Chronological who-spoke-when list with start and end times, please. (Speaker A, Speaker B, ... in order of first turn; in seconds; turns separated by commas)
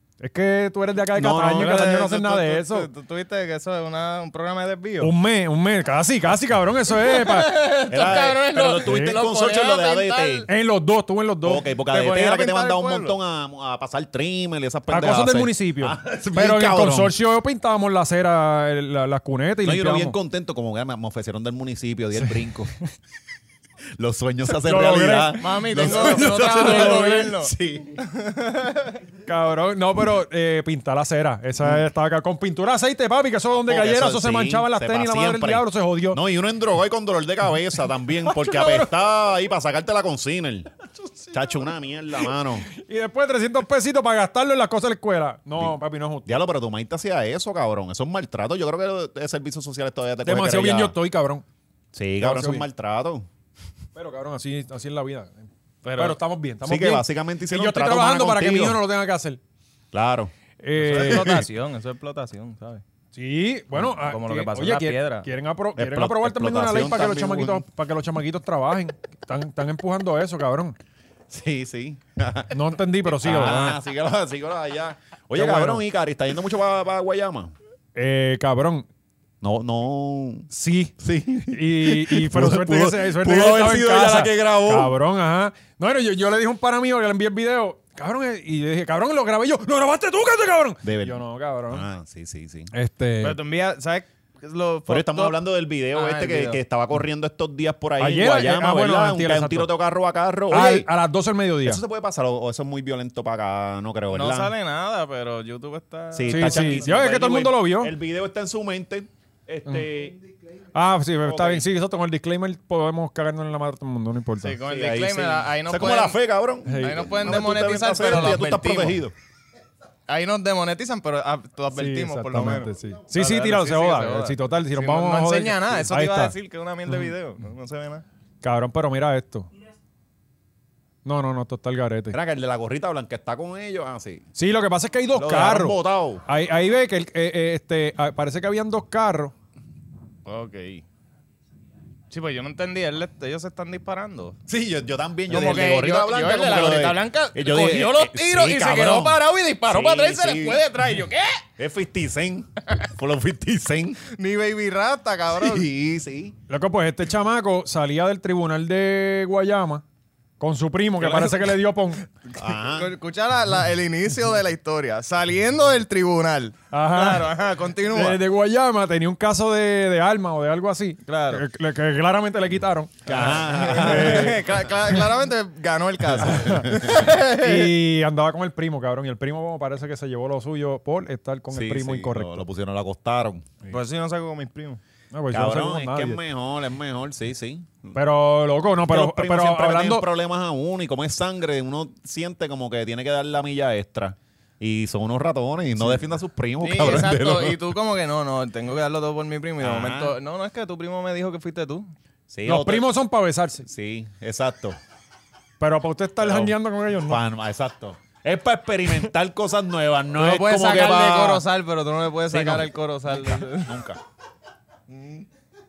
Speaker A: 0.2-2.9, Speaker B: 1.1-1.9, Speaker C: 1.4-5.1, Speaker A: 5.0-7.5, Speaker C: 7.0-10.5, Speaker B: 7.9-10.5, Speaker A: 8.8-9.2, Speaker A: 10.5-11.6, Speaker B: 11.4-17.2, Speaker C: 11.9-13.2, Speaker A: 14.9-20.1, Speaker B: 19.6-22.7, Speaker A: 22.2-22.9, Speaker B: 24.0-28.0, Speaker A: 24.5-27.3, Speaker C: 25.4-29.0, Speaker A: 29.3-36.2, Speaker B: 33.5-40.7, Speaker A: 38.2-38.9, Speaker A: 41.0-41.3, Speaker B: 41.3-42.7, Speaker A: 42.7-46.3, Speaker B: 45.6-51.0, Speaker A: 50.2-51.4, Speaker B: 51.9-53.3, Speaker A: 52.2-52.7, Speaker A: 54.0-59.4, Speaker C: 55.8-56.2, Speaker B: 56.6-58.8, Speaker B: 59.9-60.3, Speaker A: 60.6-61.4, Speaker C: 60.8-62.8, Speaker B: 61.0-61.4, Speaker A: 63.1-70.8, Speaker C: 63.9-65.3, Speaker B: 65.8-67.6, Speaker B: 71.3-72.5, Speaker A: 72.5-73.8, Speaker B: 73.1-77.5, Speaker A: 75.3-75.8, Speaker A: 78.0-78.9, Speaker B: 79.4-80.5, Speaker A: 80.5-80.9, Speaker B: 81.0-84.9, Speaker A: 81.5-91.9, Speaker B: 90.8-92.7, Speaker A: 92.7-93.4, Speaker C: 93.2-95.3, Speaker B: 94.9-100.9, Speaker C: 95.9-96.6, Speaker A: 98.0-99.7, Speaker A: 100.5-101.8, Speaker B: 101.6-104.5, Speaker C: 104.1-106.8, Speaker B: 106.1-110.2, Speaker A: 106.3-107.9, Speaker A: 110.8-114.6, Speaker B: 111.2-111.7, Speaker C: 114.4-116.2, Speaker B: 114.6-119.1, Speaker A: 116.7-117.2, Speaker C: 116.8-119.0, Speaker C: 120.1-128.0, Speaker A: 121.7-126.3, Speaker A: 128.4-129.5, Speaker A: 131.1-132.2, Speaker B: 132.1-134.2, Speaker A: 134.4-139.3, Speaker B: 135.1-136.2, Speaker C: 140.3-140.8, Speaker C: 142.1-144.4, Speaker B: 144.5-150.6, Speaker C: 145.3-151.4, Speaker B: 151.6-154.0, Speaker C: 154.1-155.7, Speaker B: 155.3-156.4, Speaker A: 156.5-159.8, Speaker A: 160.4-162.0, Speaker C: 161.0-161.6, Speaker C: 162.3-168.2, Speaker B: 162.3-162.9, Speaker A: 166.7-167.3, Speaker A: 167.9-174.4, Speaker C: 171.1-171.4, Speaker B: 173.1-174.5, Speaker C: 173.1-177.7, Speaker B: 176.2-176.8, Speaker A: 176.2-182.4, Speaker B: 181.5-183.5, Speaker C: 183.7-184.8, Speaker A: 185.1-186.2, Speaker B: 185.3-188.0, Speaker A: 187.9-190.1, Speaker B: 188.8-197.6, Speaker A: 195.8-196.0, Speaker C: 196.6-201.9, Speaker B: 199.6-200.2, Speaker B: 202.3-202.9, Speaker A: 202.4-203.7, Speaker B: 203.7-204.8, Speaker A: 205.6-207.2, Speaker B: 206.2-211.4, Speaker C: 210.2-213.8, Speaker B: 212.3-212.7, Speaker B: 213.5-214.0, Speaker C: 214.9-215.3